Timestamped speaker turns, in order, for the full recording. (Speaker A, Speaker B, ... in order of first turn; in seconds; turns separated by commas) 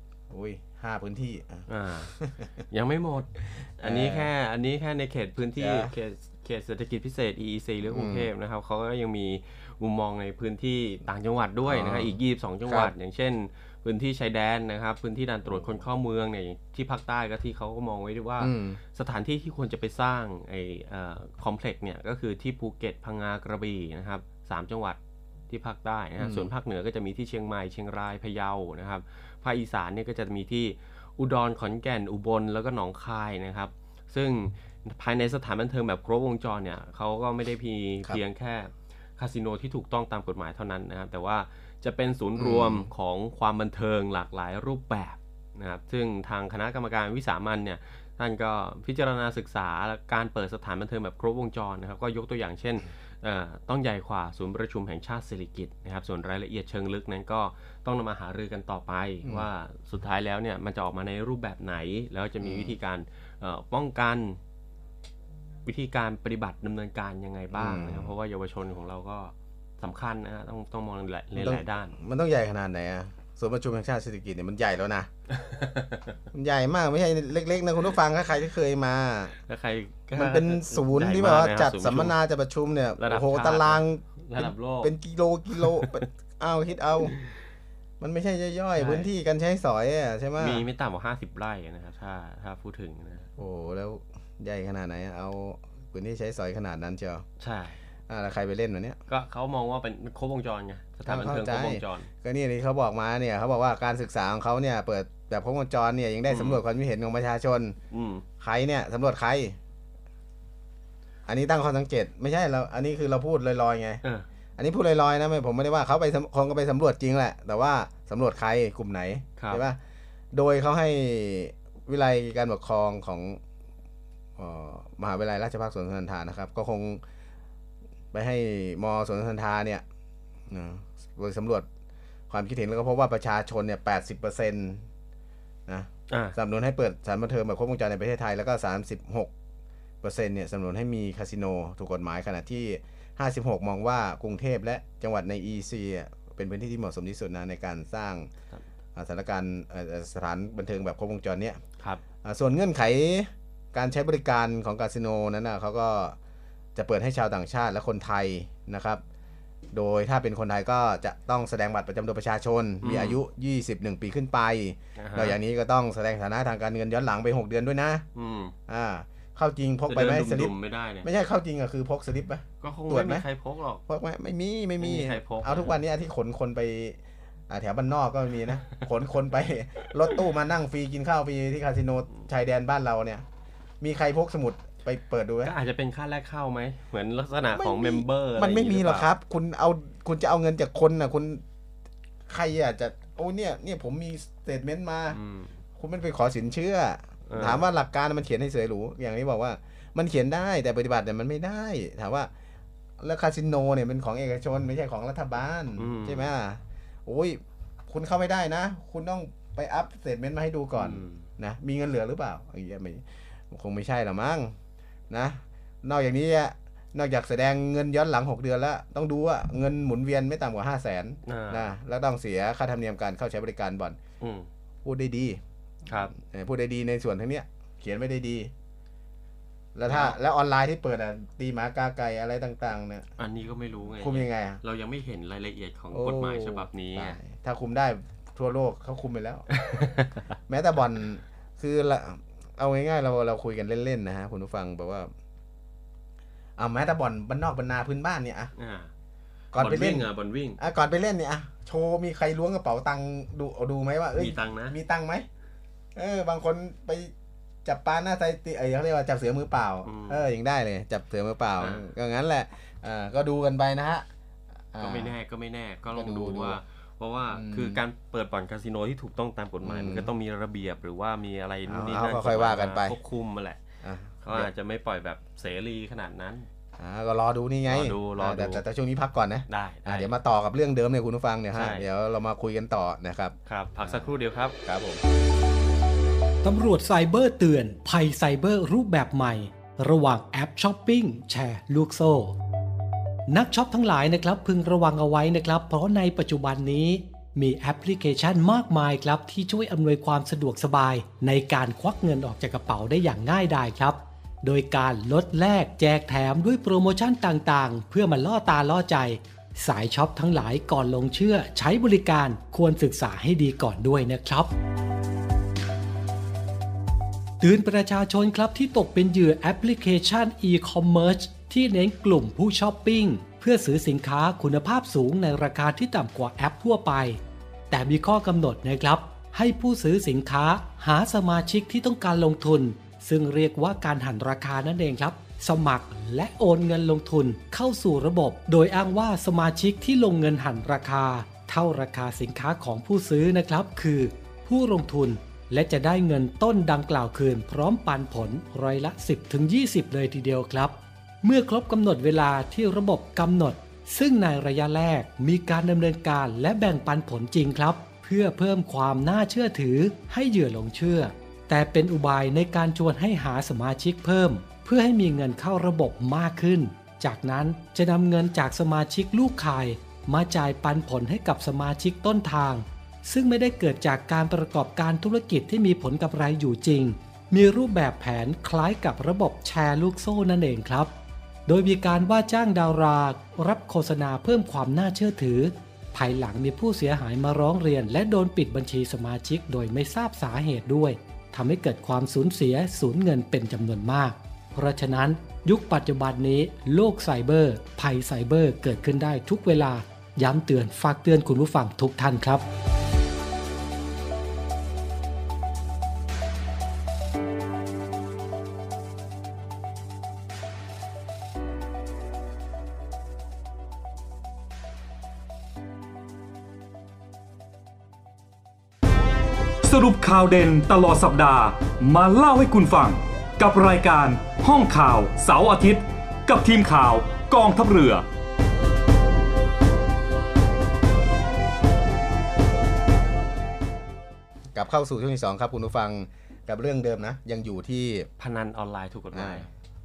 Speaker A: 0.3-2.4, Speaker B: 1.7-2.1, Speaker B: 2.7-64.4, Speaker A: 3.8-4.3, Speaker A: 5.6-5.9, Speaker A: 7.8-8.3, Speaker A: 11.7-12.1, Speaker A: 18.4-18.8, Speaker A: 26.2-26.5, Speaker A: 42.4-42.9, Speaker A: 62.4-62.7, Speaker B: 65.6-72.0, Speaker A: 67.5-68.1, Speaker A: 71.3-75.1, Speaker B: 75.3-76.2, Speaker A: 76.3-79.3, Speaker B: 79.5-82.1, Speaker A: 80.1-87.1, Speaker B: 83.0-84.9, Speaker B: 85.5-86.0, Speaker A: 88.0-90.6, Speaker B: 88.8-89.1, Speaker B: 90.4-93.3, Speaker A: 93.4-97.2, Speaker B: 97.4-97.8, Speaker A: 98.1-99.0, Speaker B: 99.1-102.1, Speaker A: 101.0-107.8, Speaker B: 106.3-106.6, Speaker B: 107.9-108.2, Speaker A: 108.4-109.6, Speaker A: 111.3-114.0, Speaker A: 114.6-119.8, Speaker B: 119.4-119.6, Speaker A: 120.3-123.4, Speaker A: 124.4-127.0, Speaker A: 128.1-129.8, Speaker A: 130.5-131.7, Speaker A: 132.3-134.8, Speaker A: 135.7-139.3, Speaker B: 136.1-136.3, Speaker A: 140.0-148.3, Speaker A: 148.9-151.6, Speaker A: 152.2-156.2, Speaker A: 156.7-159.0, Speaker A: 159.7-168.1, Speaker B: 162.8-163.2, Speaker B: 164.9-165.4, Speaker B: 168.1-168.5, Speaker A: 168.7-173.2, Speaker B: 169.9-171.1, Speaker B: 172.6-173.8, Speaker A: 173.9-177.0, Speaker B: 174.8-175.7, Speaker A: 177.5-183.2, Speaker A: 183.8-185.5, Speaker B: 185.4-189.1, Speaker A: 187.5-191.4, Speaker A: 192.3-195.2, Speaker B: 195.1-195.5, Speaker A: 195.8-202.3, Speaker B: 197.3-197.6, Speaker A: 203.0-214.5, Speaker B: 205.8-206.3, Speaker B: 210.8-211.2, Speaker A: 215.1-224.0, Speaker B: 221.2-221.7, Speaker B: 224.2-224.5, Speaker A: 224.8-225.4, Speaker B: 225.8-226.1, Speaker A: 226.1-228.5, Speaker A: 229.7-233.1, Speaker B: 229.9-230.2, Speaker B: 233.2-237.2, Speaker A: 234.0-234.6, Speaker A: 235.9-239.5, Speaker B: 239.5-240.3, Speaker A: 240.5-245.1, Speaker A: 246.6-248.5, Speaker B: 248.6-248.9, Speaker A: 249.5-255.3, Speaker B: 249.5-250.6, Speaker B: 254.2-254.8, Speaker A: 255.9-257.1, Speaker A: 257.6-264.1, Speaker B: 259.8-260.2, Speaker B: 261.6-261.8, Speaker A: 264.7-265.1, Speaker B: 264.8-273.6, Speaker A: 265.9-266.6, Speaker A: 267.3-267.8, Speaker A: 269.6-270.1, Speaker A: 271.7-272.9, Speaker A: 273.8-274.5, Speaker B: 274.2-276.5, Speaker A: 276.8-284.0, Speaker B: 277.7-278.6, Speaker B: 279.5-280.1, Speaker B: 281.5-281.9, Speaker B: 283.4-284.6, Speaker A: 284.6-285.0, Speaker C: 286.4-292.4, Speaker C: 293.3-314.5, Speaker C: 317.4-327.2, Speaker C: 327.7-380.9, Speaker C: 381.4-402.4, Speaker D: 419.6-428.0, Speaker A: 434.5-438.1, Speaker B: 438.2-439.5, Speaker A: 439.1-439.4